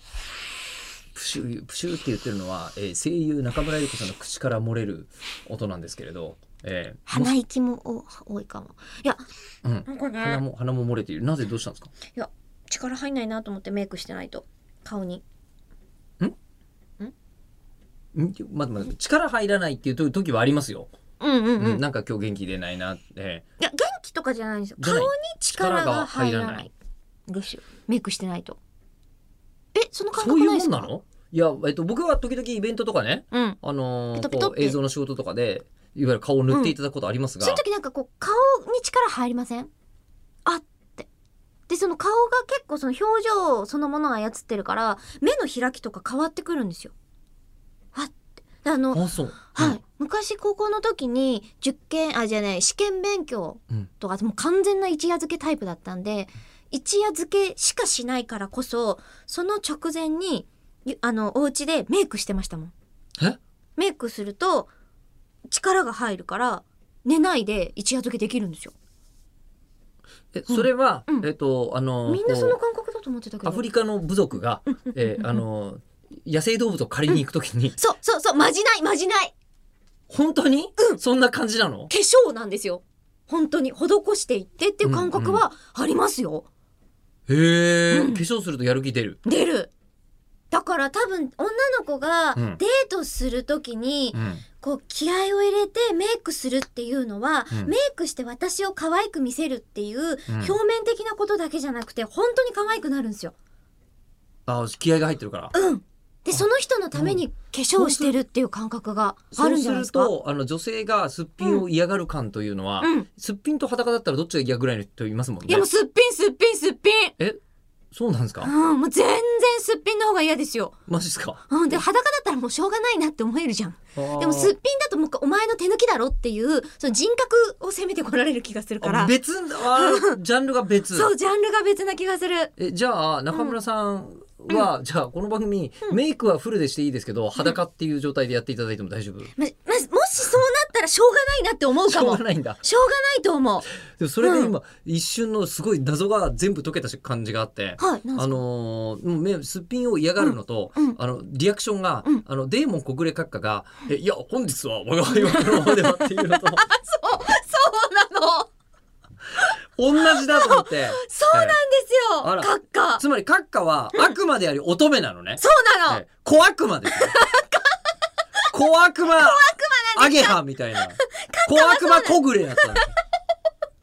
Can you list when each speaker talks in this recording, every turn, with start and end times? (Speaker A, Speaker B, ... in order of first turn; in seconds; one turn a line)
Speaker A: 1.1-7.3
Speaker B: 7.1-9.2
Speaker A: 9.6-11.9
Speaker B: 9.8-10.4
Speaker B: 12.1-15.2
Speaker A: 18.1-20.9
Speaker B: 21.2-21.8
Speaker A: 21.6-23.4
Speaker B: 23.6-26.7
Speaker A: 24.8-26.6
Speaker B: 27.3-28.6
Speaker B: 29.7-30.9
Speaker A: 30.1-37.6
Speaker B: 33.3-33.6
Speaker B: 34.1-34.8
Speaker B: 36.5-36.7
Speaker B: 37.4-39.7
Speaker B: 40.5-41.1
Speaker B: 41.7-46.9
Speaker B: 47.9-62.7
Speaker A: 48.9-49.8
Speaker B: 63.8-64.7
Speaker B: 65.5-68.7
Speaker A: 70.3-72.6
Speaker B: 70.5-71.3
Speaker B: 72.0-73.7
Speaker A: 73.4-77.8
Speaker B: 74.7-75.4
Speaker B: 77.8-79.3
Speaker A: 80.1-81.9
Speaker B: 81.9-86.5
Speaker A: 84.8-85.4
Speaker A: 87.3-89.2
Speaker B: 87.9-88.2
Speaker B: 89.2-89.7
Speaker B: 90.5-103.3
Speaker A: 92.3-92.6
Speaker A: 94.1-94.4
Speaker A: 100.3-100.5
Speaker A: 104.5-105.5
Speaker B: 105.5-110.1
Speaker A: 106.3-107.2
Speaker A: 107.8-108.2
Speaker A: 109.3-115.7
Speaker B: 112.8-113.1
Speaker B: 115.5-117.1
Speaker A: 117.9-118.5
Speaker B: 118.4-120.7
Speaker A: 120.9-121.8
Speaker B: 121.5-129.1
Speaker A: 124.0-124.5
Speaker A: 128.8-131.1
Speaker B: 129.7-130.2
Speaker B: 130.9-132.5
Speaker A: 132.6-139.3
Speaker B: 133.3-133.6
Speaker B: 139.4-143.7
Speaker A: 141.8-142.6
Speaker A: 143.9-156.6
Speaker B: 144.2-144.5
Speaker B: 147.8-148.4
Speaker B: 150.2-151.0
Speaker B: 155.1-158.5
Speaker A: 159.8-161.6
Speaker B: 159.9-163.0
Speaker A: 162.2-167.2
Speaker B: 165.4-166.0
Speaker B: 166.9-167.8
Speaker A: 168.5-172.9
Speaker B: 169.1-170.4
Speaker B: 171.0-172.9